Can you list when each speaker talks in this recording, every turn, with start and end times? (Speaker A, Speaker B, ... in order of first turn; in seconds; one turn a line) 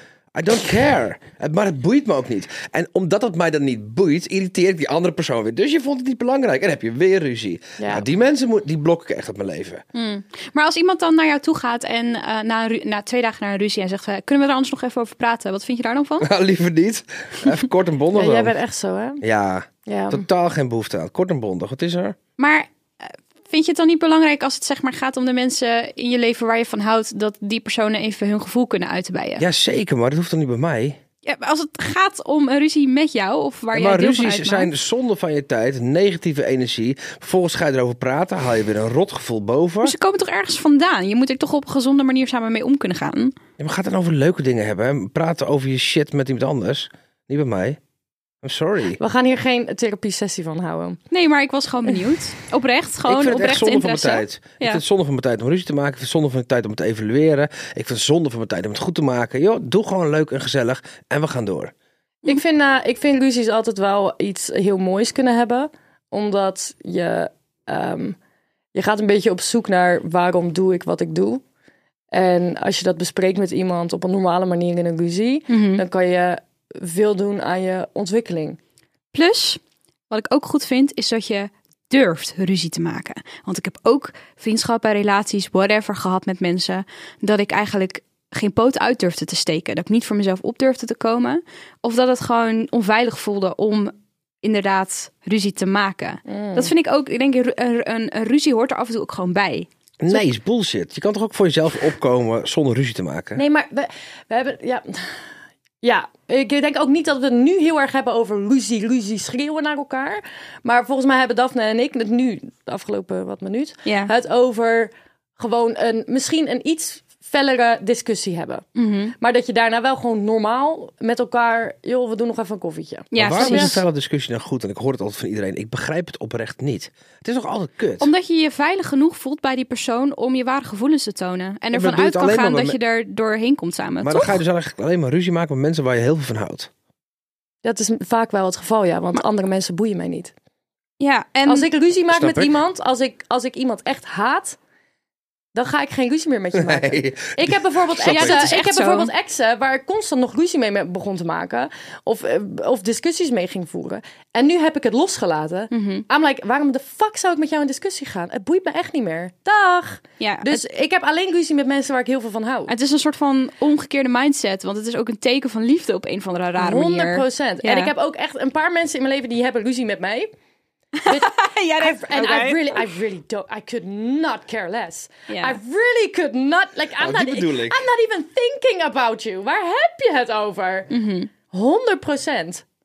Speaker A: 0.3-9.8
Speaker B: 7.8-8.1
Speaker C: 9.9-16.3
Speaker A: 16.2-18.6
Speaker B: 18.1-19.2
Speaker A: 19.2-22.2
Speaker B: 19.8-20.2
Speaker C: 22.4-29.4
Speaker A: 29.4-31.0
Speaker C: 31.2-34.7
Speaker A: 33.7-39.9
Speaker C: 39.8-43.3
Speaker A: 43.6-47.8
Speaker A: 48.4-49.0
Speaker B: 49.0-51.0
Speaker C: 51.1-54.8
Speaker A: 53.0-61.7
Speaker B: 62.2-68.2
Speaker B: 68.7-71.4
Speaker B: 72.1-78.6
Speaker C: 75.5-75.8
Speaker C: 79.1-100.2
Speaker B: 96.3-96.7
Speaker A: 100.0-103.4
Speaker B: 103.3-105.2
Speaker B: 105.8-118.7
Speaker C: 113.8-114.1
Speaker C: 118.8-119.1
Speaker B: 119.2-123.8
Speaker C: 123.1-123.8
Speaker A: 123.1-128.1
Speaker C: 128.0-134.4
Speaker A: 131.7-132.8
Speaker A: 134.0-136.7
Speaker B: 137.6-140.3
Speaker C: 141.0-141.7
Speaker B: 141.4-144.6
Speaker A: 142.1-142.6
Speaker B: 145.5-162.7
Speaker A: 146.5-148.6
Speaker C: 148.0-149.1
Speaker C: 155.7-156.1
Speaker C: 160.2-160.6
Speaker C: 162.7-167.9
Speaker B: 166.6-170.3
Speaker C: 171.0-172.9
Speaker B: 171.1-180.9
Speaker C: 175.3-175.6
Speaker A: 177.0-177.8
Speaker C: 180.9-181.3
Speaker B: 181.5-182.6